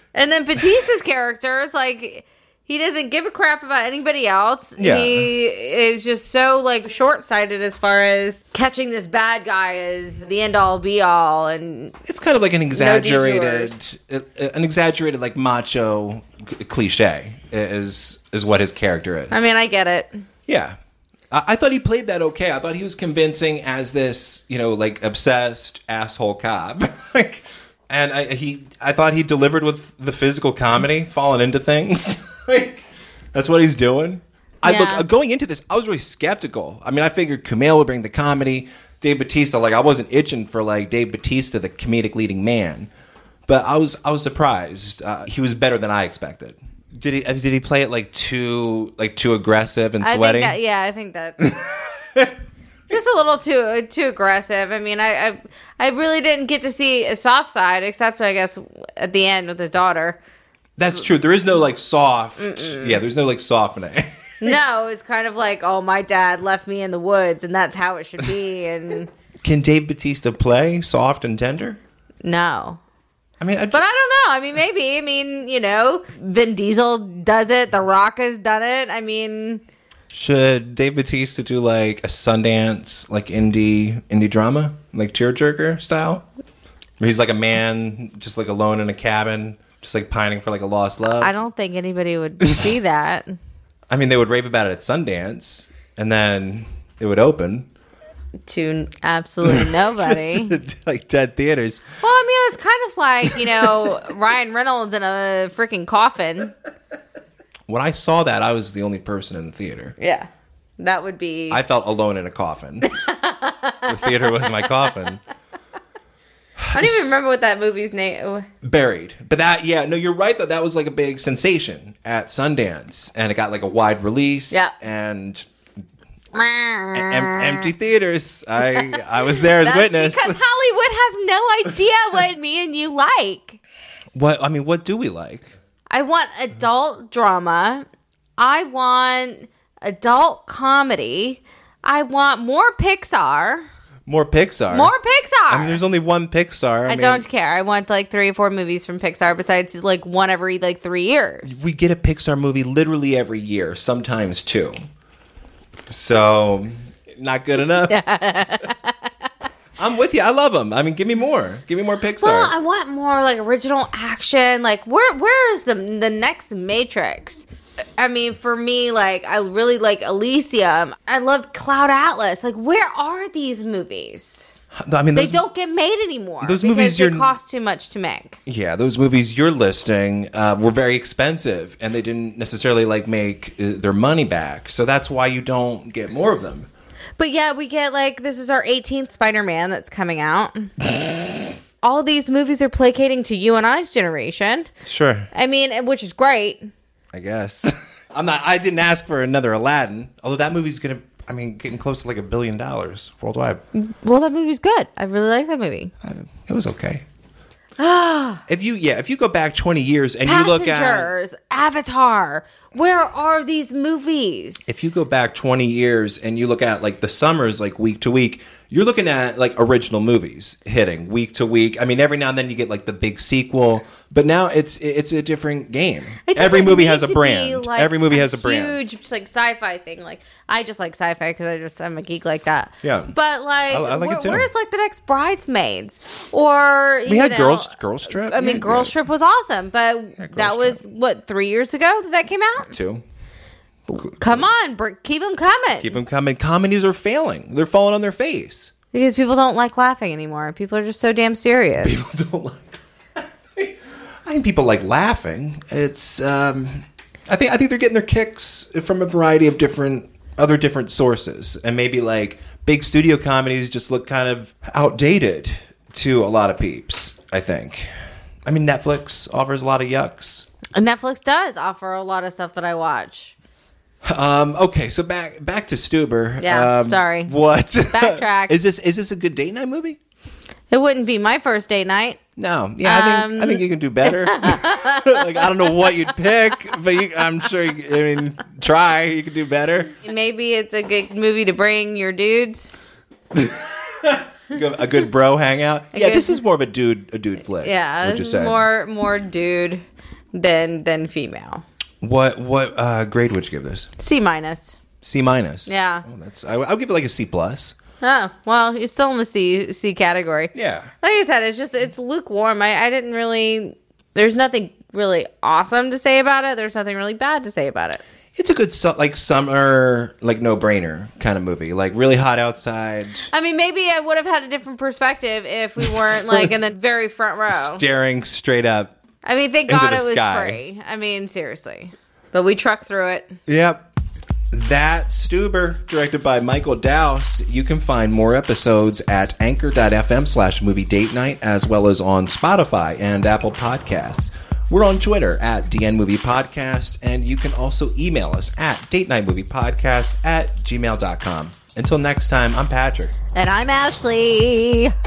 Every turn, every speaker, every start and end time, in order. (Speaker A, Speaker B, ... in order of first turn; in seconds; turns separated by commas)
Speaker A: 0.1-11.9, Speaker B: 4.8-5.3, Speaker B: 12.1-19.4, Speaker A: 12.7-13.8, Speaker A: 19.3-20.2, Speaker B: 20.5-20.8, Speaker B: 21.3-42.9, Speaker A: 34.6-35.0, Speaker B: 43.5-50.6, Speaker A: 50.0-51.5, Speaker B: 51.4-52.3, Speaker A: 52.9-60.2, Speaker B: 60.8-64.6, Speaker A: 62.4-63.0, Speaker A: 64.4-69.1, Speaker B: 69.4-71.8, Speaker A: 72.2-72.8, Speaker B: 73.4-73.8, Speaker A: 73.7-79.6, Speaker B: 80.1-86.2, Speaker B: 87.0-91.3, Speaker A: 91.2-93.3, Speaker B: 92.4-92.8, Speaker B: 93.9-97.7, Speaker A: 98.5-100.6, Speaker B: 99.4-101.8, Speaker A: 102.0-106.5, Speaker B: 103.2-104.0, Speaker B: 107.7-110.0, Speaker A: 110.0-111.6, Speaker B: 111.5-112.9, Speaker A: 112.8-114.8, Speaker B: 113.8-115.2, Speaker B: 116.6-117.1, Speaker A: 116.7-118.5, Speaker B: 118.6-125.5, Speaker A: 126.3-127.7, Speaker B: 126.9-130.4, Speaker A: 128.7-133.6, Speaker B: 134.1-135.5, Speaker A: 135.9-137.8, Speaker A: 138.4-143.7, Speaker B: 144.1-144.9, Speaker A: 144.7-145.8, Speaker B: 145.5-147.2, Speaker A: 146.9-151.7, Speaker B: 151.4-154.8, Speaker B: 155.9-158.0, Speaker A: 157.9-159.1, Speaker B: 159.8-162.5, Speaker A: 162.2-167.4, Speaker A: 168.0-174.5, Speaker B: 174.7-175.4, Speaker A: 175.1-178.4, Speaker B: 176.4-177.3, Speaker B: 178.4-186.7, Speaker A: 187.2-190.9, Speaker A: 191.8-194.7, Speaker B: 194.8-195.3, Speaker A: 195.3-196.7, Speaker B: 197.1-203.6, Speaker A: 203.7-205.9, Speaker B: 206.0-207.0, Speaker A: 207.8-208.4, Speaker B: 208.5-211.1, Speaker A: 210.2-214.8, Speaker B: 214.7-228.8, Speaker A: 226.2-242.7, Speaker B: 232.8-233.1, Speaker B: 233.7-234.5, Speaker B: 237.1-238.9, Speaker B: 240.2-240.8, Speaker B: 242.6-243.0, Speaker A: 243.9-246.0, Speaker B: 244.0-244.4, Speaker B: 245.8-248.7, Speaker A: 248.9-252.1, Speaker B: 251.8-267.9, Speaker B: 268.4-270.5, Speaker A: 270.7-273.3, Speaker B: 274.0-280.0, Speaker A: 276.4-277.3, Speaker A: 277.9-278.6, Speaker A: 280.7-282.2, Speaker B: 282.4-289.9, Speaker A: 282.8-286.0, Speaker A: 290.0-292.7, Speaker B: 293.3-298.6, Speaker A: 295.9-296.4, Speaker A: 297.6-299.8, Speaker A: 300.3-301.6, Speaker B: 302.0-303.9, Speaker A: 304.0-304.8, Speaker B: 305.0-307.8, Speaker A: 305.7-306.1, Speaker A: 308.0-318.0, Speaker B: 310.5-310.9, Speaker B: 318.4-323.3, Speaker A: 323.3-327.8, Speaker B: 325.8-326.5, Speaker B: 327.5-328.9, Speaker A: 329.2-333.4, Speaker B: 329.7-330.6, Speaker B: 333.5-333.9, Speaker B: 334.5-353.1, Speaker A: 353.3-354.9